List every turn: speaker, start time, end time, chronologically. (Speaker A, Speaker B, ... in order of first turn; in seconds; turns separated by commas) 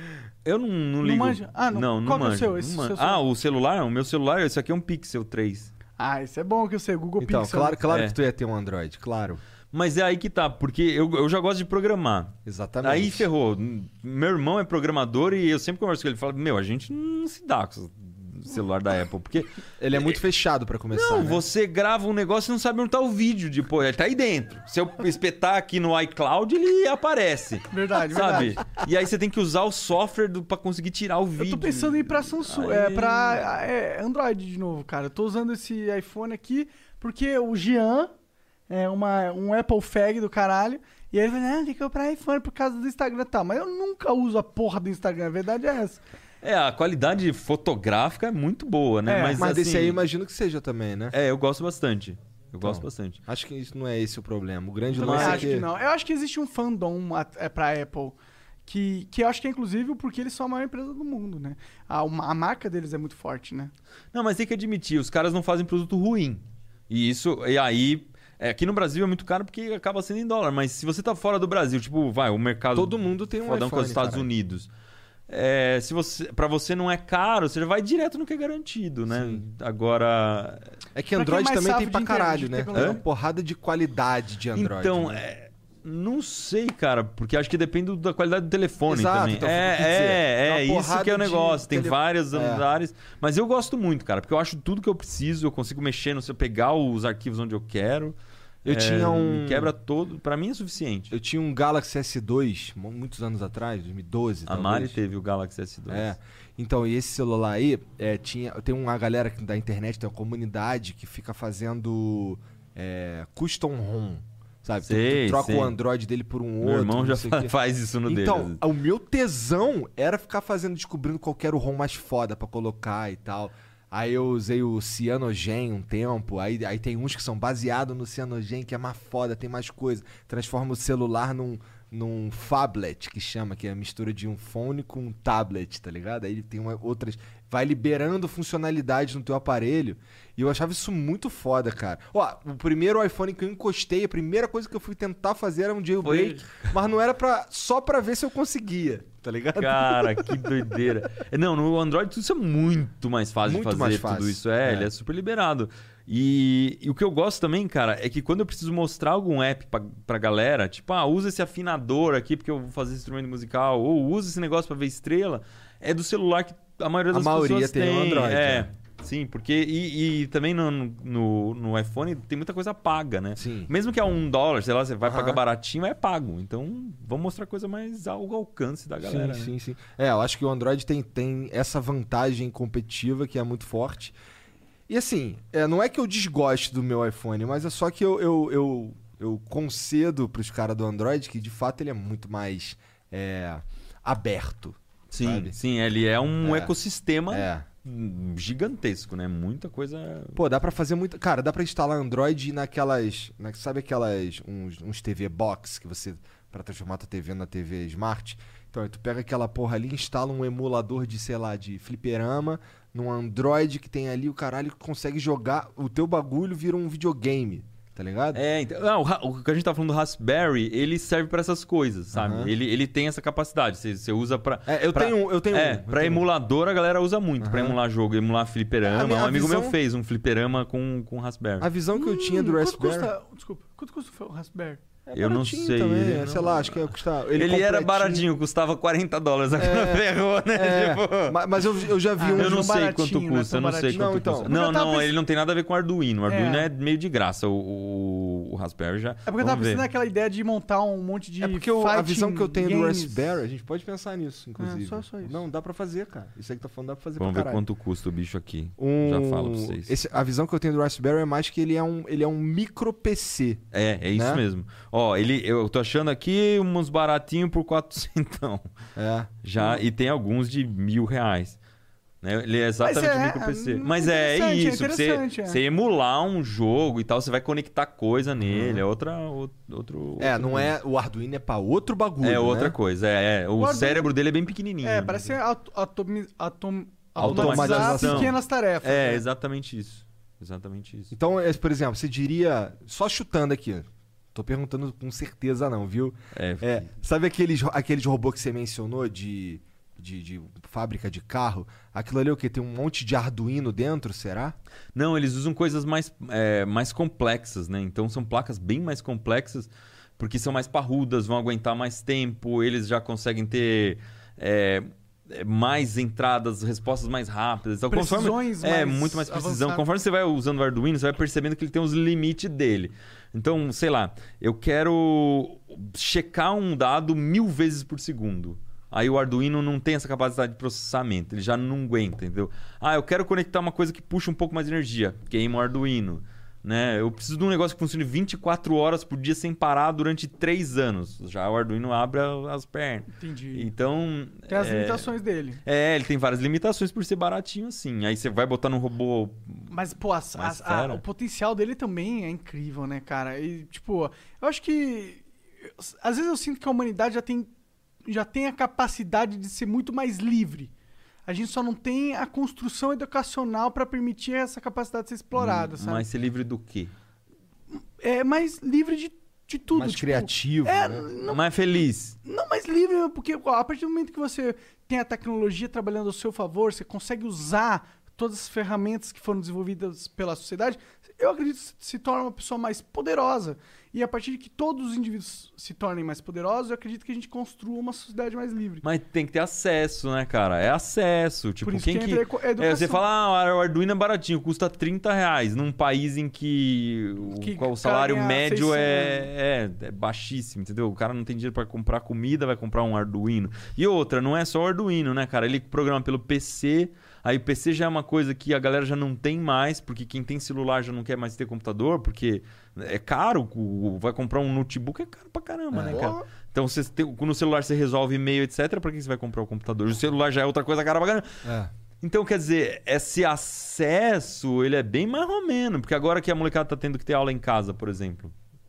Speaker A: 0.5-5.7, Speaker B: 1.0-3.2, Speaker B: 6.0-7.8, Speaker C: 7.2-9.4, Speaker A: 7.9-8.2, Speaker A: 9.7-20.2, Speaker C: 12.4-13.3, Speaker C: 19.8-21.4, Speaker A: 20.9-33.5, Speaker B: 27.7-28.6, Speaker B: 31.4-38.1, Speaker B: 38.7-46.0, Speaker A: 46.4-50.0, Speaker B: 49.1-49.4, Speaker C: 49.4-51.1, Speaker A: 51.1-53.2, Speaker C: 52.6-55.7, Speaker A: 54.9-55.6, Speaker B: 55.0-63.7, Speaker A: 64.1-74.7, Speaker C: 72.7-74.3, Speaker A: 75.3-80.6, Speaker C: 79.1-79.4, Speaker C: 81.0-85.2, Speaker B: 81.2-83.0, Speaker A: 82.7-83.0, Speaker A: 84.5-101.1, Speaker C: 88.9-92.7, Speaker C: 98.7-99.7, Speaker C: 101.1-105.0, Speaker A: 104.5-106.1, Speaker C: 105.9-117.5, Speaker A: 114.8-115.8, Speaker A: 116.6-118.6, Speaker C: 118.1-150.4, Speaker A: 146.0-146.7, Speaker A: 149.6-179.5, Speaker C: 153.5-154.9, Speaker C: 167.1-168.7, Speaker C: 173.4-173.7, Speaker C: 175.1-175.4, Speaker C: 179.0-184.2, Speaker C: 184.9-195.6, Speaker A: 195.1-200.4, Speaker C: 196.4-196.7, Speaker C: 197.3-197.7, Speaker C: 200.3-218.4, Speaker A: 218.3-231.7, Speaker C: 222.1-222.5, Speaker C: 224.7-226.3, Speaker C: 227.4-227.8, Speaker C: 228.8-229.8, Speaker C: 231.6-233.1, Speaker B: 231.9-234.8, Speaker C: 235.1-238.3, Speaker A: 235.2-241.4, Speaker C: 239.6-242.7, Speaker B: 242.2-245.2, Speaker A: 242.3-249.9, Speaker C: 243.9-244.5, Speaker B: 246.3-246.7, Speaker B: 249.3-253.2, Speaker C: 251.4-257.6, Speaker B: 254.6-255.4, Speaker A: 257.2-259.9, Speaker C: 258.8-263.6, Speaker A: 263.7-268.7, Speaker C: 264.1-264.4, Speaker C: 269.0-269.3, Speaker A: 269.4-271.6, Speaker A: 272.2-280.7, Speaker B: 272.8-275.6, Speaker C: 278.4-278.8, Speaker C: 280.2-282.8, Speaker A: 282.2-285.4, Speaker B: 283.6-284.1, Speaker B: 284.8-289.2, Speaker C: 287.2-288.4, Speaker A: 287.2-291.1, Speaker C: 291.1-304.6, Speaker A: 296.4-296.9, Speaker A: 304.9-345.1, Speaker B: 317.9-319.9, Speaker B: 343.1-343.7, Speaker B: 344.5-345.6, Speaker A: 345.6-349.7, Speaker B: 349.7-357.5, Speaker A: 350.4-351.0, Speaker B: 358.1-360.7, Speaker B: 361.3-366.1, Speaker A: 365.3-366.9, Speaker B: 367.7-371.4, Speaker C: 369.7-371.1, Speaker A: 371.2-372.2, Speaker B: 372.2-388.8, Speaker A: 388.8-421.2, Speaker B: 391.6-393.1, Speaker B: 397.3-399.3, Speaker C: 415.7-416.2, Speaker C: 421.4-421.7, Speaker A: 422.0-428.3